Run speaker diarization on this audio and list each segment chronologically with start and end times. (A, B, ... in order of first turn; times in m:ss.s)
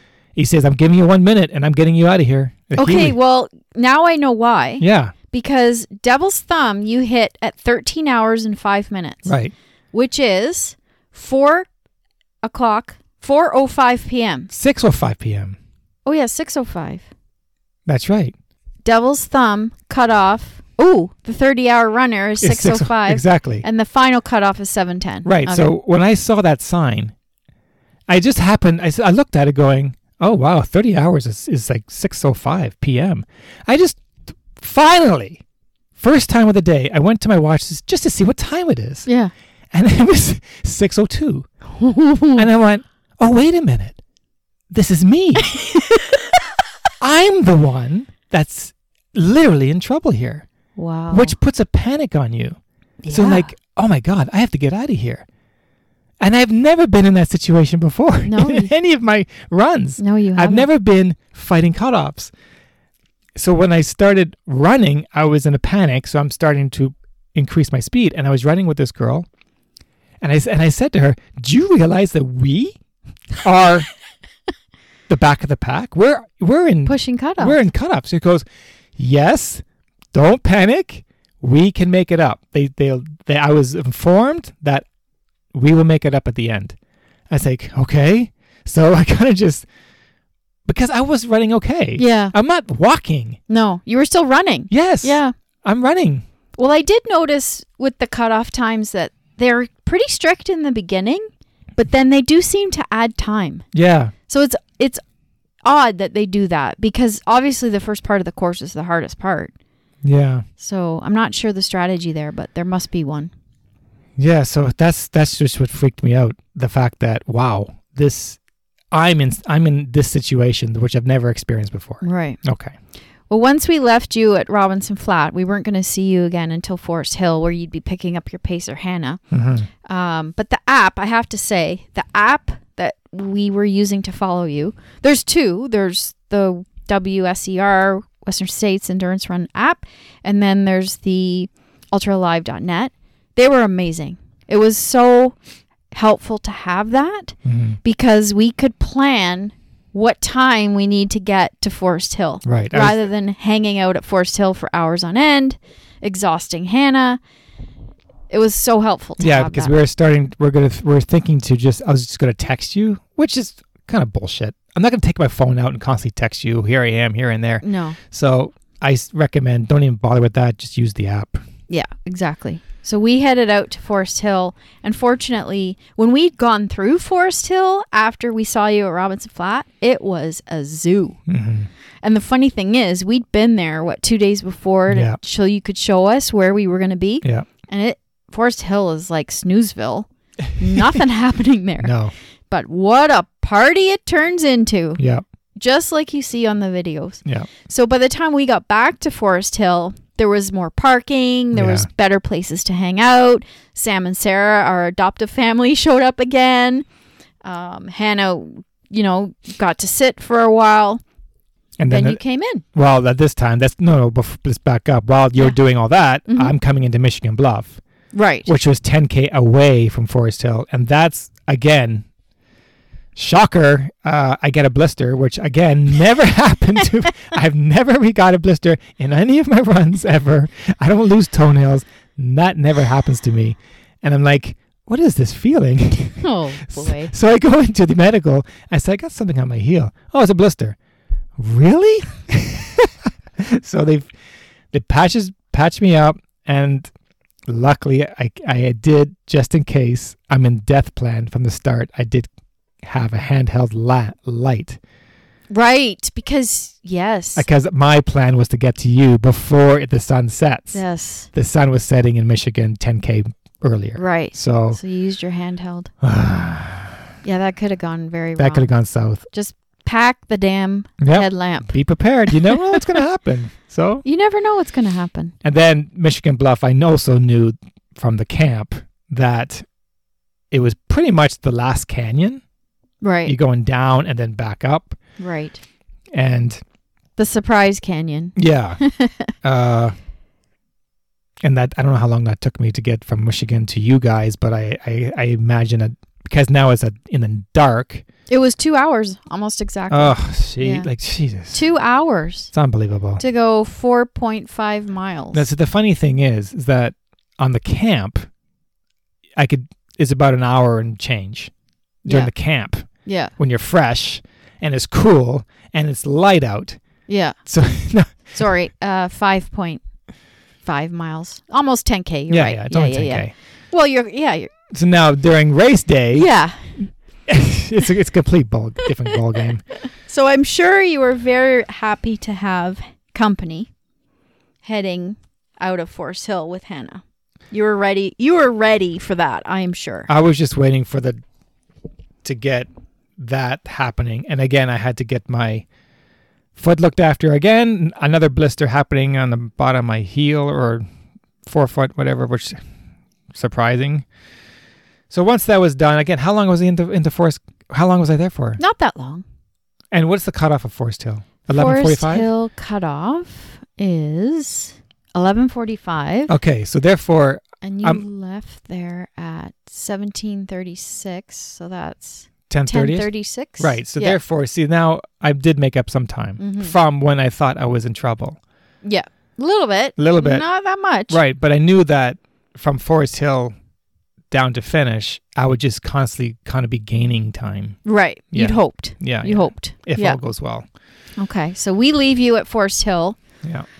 0:00.4-0:03.2 A
0:02.7-0:09.3 B
0:04.8-0:05.1 A
0:09.2-0:09.5 A
0:09.9-0:11.7 B
0:12.4-0:14.5 B
0:14.5-0:15.6 A
0:16.0-0:17.1 B
0:17.8-0:18.3 A
0:18.8-0:25.7 B
0:22.4-0:23.6 A
0:25.2-0:27.1 A
0:28.1-0:35.4 A
0:36.0-0:39.1 A
0:39.0-0:39.3 B
0:39.7-0:41.5 A
0:41.8-0:42.4 B
0:42.3-0:44.0 A
0:44.7-0:45.6 A
0:45.5-0:46.1 B
0:47.0-0:50.4 A
0:50.8-0:51.4 B
0:51.1-0:52.6 A
0:53.0-0:53.5 B
0:53.1-0:55.2 A
0:56.2-1:02.3 A
0:58.2-0:58.7 B
1:00.0-1:00.7 B
1:03.3-1:09.3 A
1:10.2-1:12.8 A
1:13.4-1:13.9 A
1:15.1-1:18.4 A
1:16.8-1:17.6 B
1:19.0-1:24.8 A
1:25.5-1:26.8 A
1:27.3-1:29.6 A
1:30.6-1:33.4 A
1:32.0-1:32.3 B
1:33.5-1:35.3 B
1:34.7-1:36.2 A
1:36.6-1:43.6 B
1:43.7-1:44.1 A
1:44.3-1:45.0 B
1:45.6-1:49.5 B
1:50.0-1:50.4 A
1:50.6-1:53.3 B
1:54.2-1:58.4 A
1:58.9-2:02.7 A
2:02.0-2:02.4 B
2:03.3-2:09.2 B
2:09.3-2:09.7 A
2:09.8-2:25.3 B
2:25.9-2:37.2 B
2:27.4-2:27.8 A
2:32.4-2:33.0 A
2:38.3-2:39.8 B
2:39.2-2:51.4 A
2:47.6-2:48.0 B
2:51.7-3:01.2 B
3:01.3-3:01.7 A
3:02.0-3:11.9 B
3:04.9-3:05.2 A
3:10.7-3:11.0 A
3:11.8-3:12.1 A
3:12.5-3:15.0 B
3:15.0-3:15.2 A
3:15.6-3:26.8 B
3:21.5-3:21.9 A
3:27.4-3:31.0 B
3:31.8-3:32.2 A
3:31.9-3:32.6 B
3:32.7-3:37.8 A
3:36.3-3:36.5 B
3:38.1-3:38.5 B
3:38.4-3:42.0 A
3:43.2-4:00.8 A
3:56.2-3:57.1 B
4:01.4-4:04.1 A
4:04.7-4:06.9 A
4:07.5-4:12.3 A
4:12.8-4:14.8 A
4:15.5-4:17.5 B
4:17.4-4:24.8 A
4:20.7-4:21.3 B
4:24.0-4:25.9 B
4:26.0-4:27.0 A
4:27.2-4:28.7 B
4:28.4-4:29.2 A
4:29.3-4:31.8 B
4:31.0-4:34.0 A
4:32.4-4:32.8 B
4:34.0-4:35.3 B
4:35.4-4:39.6 A
4:40.5-4:42.4 A
4:43.0-4:43.3 B
4:43.2-4:45.0 A
4:45.2-4:45.6 B
4:46.1-4:46.6 A
4:47.2-4:49.3 B
4:48.4-4:48.8 A
4:49.4-4:49.9 A
4:51.4-4:58.0 A
4:58.3-5:00.9 B
4:59.9-5:01.6 A
5:01.5-5:02.5 B
5:02.5-5:03.2 A
5:03.2-5:05.5 B
5:05.3-5:08.3 A
5:09.4-5:11.5 A
5:12.0-5:12.3 B
5:12.0-5:16.8 A
5:13.0-5:13.3 B
5:17.1-5:17.4 B
5:17.4-5:18.5 A
5:18.4-5:19.8 B
5:20.6-5:24.5 B
5:22.3-5:23.3 A
5:24.7-5:26.3 A
5:26.1-5:26.8 B
5:27.3-5:29.6 A
5:30.0-5:33.7 B
5:34.6-5:40.1 B
5:40.1-5:41.2 A
5:42.2-5:45.6 A
5:46.5-5:50.8 A
5:51.4-5:52.6 A
5:53.3-5:54.0 A
5:55.1-5:58.6 A
5:58.6-5:59.2 B
5:59.9-6:02.3 A
6:01.5-6:06.3 B
6:06.3-6:08.0 A
6:07.6-6:14.2 B
6:12.5-6:18.4 A
6:16.4-6:16.7 B
6:18.8-6:21.2 B
6:20.0-6:20.4 A
6:21.1-6:23.5 A
6:24.3-6:27.8 A
6:27.8-6:30.2 B
6:28.3-6:30.6 A
6:31.2-6:33.2 B